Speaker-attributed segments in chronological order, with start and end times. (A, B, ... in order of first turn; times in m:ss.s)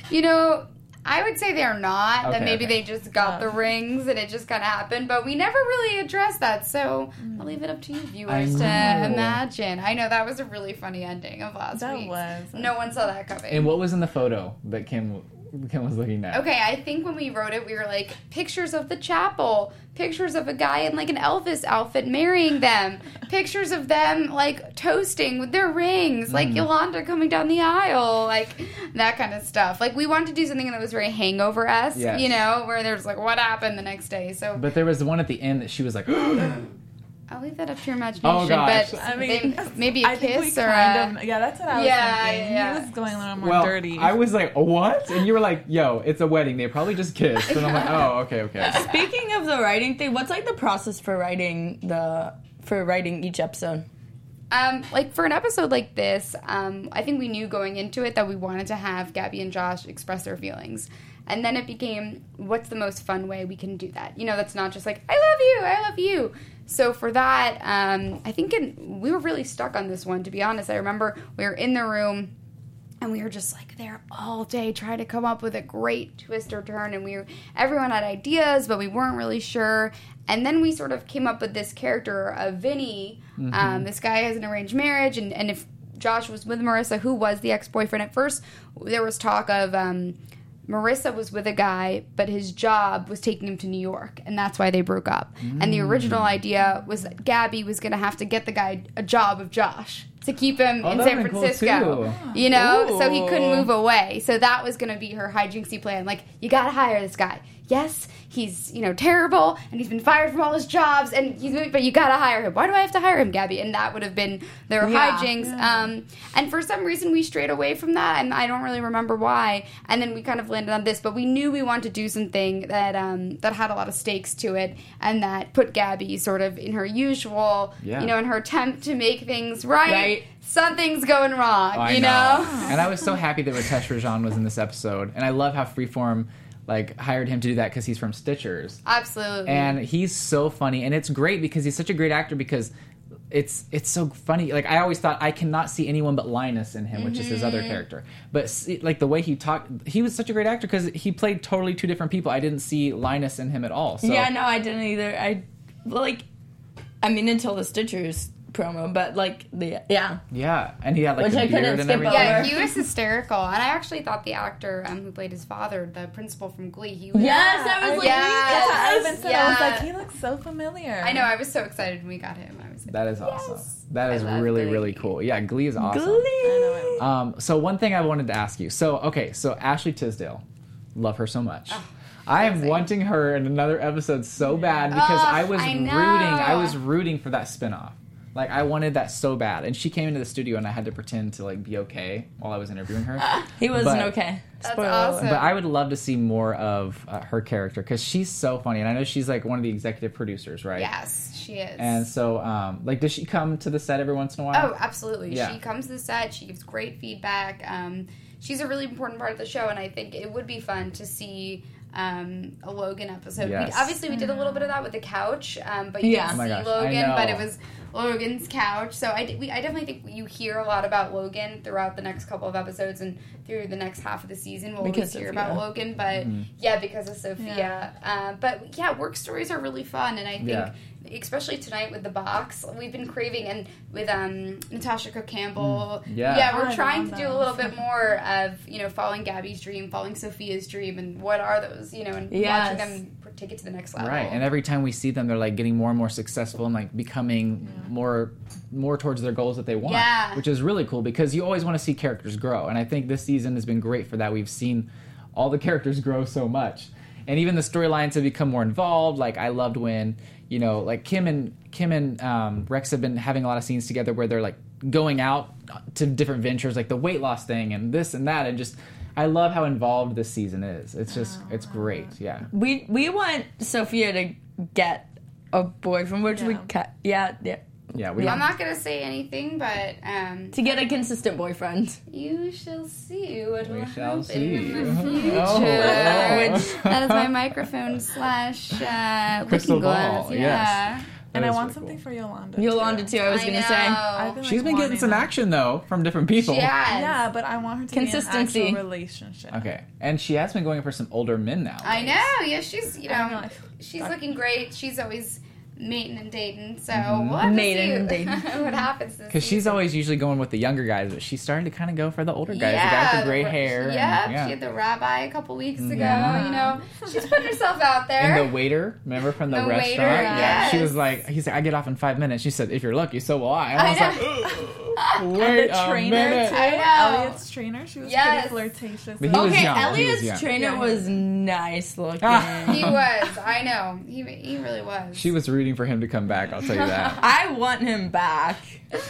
0:00.1-0:13.7 A
0:02.2-0:02.8 B
0:03.2-0:03.5 C
0:08.3-0:09.4 B
0:11.7-0:12.7 C
0:13.5-0:16.4 B
0:16.3-0:34.7 A
0:26.3-0:26.6 B
0:31.9-0:32.4 B
0:34.6-0:36.6 B
0:37.3-0:41.2 A
0:38.2-0:39.0 B
0:39.0-0:44.2 C
0:41.7-0:42.9 A
0:43.4-0:49.0 B
0:47.5-0:48.1 A
0:48.7-0:53.8 D
0:54.5-1:12.3 A
1:13.0-1:30.2 A
1:23.4-1:23.9 B
1:30.7-2:12.8 A
1:35.4-1:36.4 B
1:40.8-1:42.2 B
1:42.0-1:42.5 C
1:42.5-1:43.7 D
1:54.8-1:55.3 D
1:55.4-1:55.9 C
2:07.8-2:08.1 B
2:09.8-2:10.2 D
2:11.7-2:18.8 B
2:18.8-2:19.8 A
2:19.4-2:22.7 B
2:23.3-2:34.3 B
2:26.9-2:27.8 A
2:34.0-2:36.2 D
2:37.0-2:40.2 D
2:40.3-2:42.5 B
2:41.2-2:42.7 D
2:42.0-2:49.9 A
2:47.1-2:49.2 D
2:47.2-2:51.3 C
2:51.0-2:55.1 A
2:52.9-2:56.3 B
2:55.8-2:57.0 D
2:56.4-2:57.1 C
2:57.0-3:00.4 B
3:00.9-3:14.1 B
3:01.7-3:02.9 A
3:04.5-3:04.9 C
3:04.9-3:06.8 A
3:13.6-3:15.3 D
3:14.6-3:15.6 A
3:15.2-3:20.9 B
3:20.8-3:22.0 A
3:21.8-3:24.7 B
3:24.5-4:04.4 A
3:25.3-3:25.6 B
3:33.4-3:34.0 B
3:34.1-3:34.7 C
3:36.0-3:36.4 D
3:36.3-3:37.4 B
3:44.8-3:45.6 D
3:46.1-3:46.5 B
3:47.4-3:47.8 C
3:50.4-3:50.7 B
3:55.6-3:56.5 B
3:56.5-3:57.8 C
4:02.3-4:03.0 D
4:04.0-4:32.5 B
4:09.8-4:10.4 A
4:31.2-4:32.1 C
4:32.5-4:38.4 D
4:36.3-4:36.7 C
4:37.9-4:38.5 B
4:38.2-4:40.6 A
4:40.5-4:42.0 D
4:42.1-4:51.1 A
4:43.6-4:47.3 B
4:44.8-4:45.2 C
4:45.4-4:46.8 D
4:49.4-4:52.0 B
4:51.3-4:53.1 C
4:52.6-4:54.0 D
4:53.2-4:54.4 A
4:54.1-4:55.3 C
4:54.4-4:56.7 B
4:56.4-4:57.2 A
4:56.9-4:59.7 C
4:57.9-4:58.8 D
4:59.5-5:02.3 B
5:01.8-5:09.9 A
5:03.1-5:04.2 C
5:06.9-5:07.4 B
5:07.4-5:08.5 D
5:09.3-5:14.5 B
5:12.5-5:18.6 A
5:15.8-5:16.5 B
5:16.0-5:17.0 C
5:18.2-5:26.6 B
5:19.5-5:20.9 A
5:20.0-5:20.9 C
5:23.7-5:25.1 A
5:25.3-5:31.1 C
5:26.3-5:27.4 A
5:28.0-5:28.6 A
5:29.2-5:30.4 B
5:29.3-5:33.0 D
5:32.2-5:33.0 B
5:32.7-5:35.3 A
5:35.1-5:37.2 B
5:36.6-5:37.2 A
5:37.2-5:38.8 D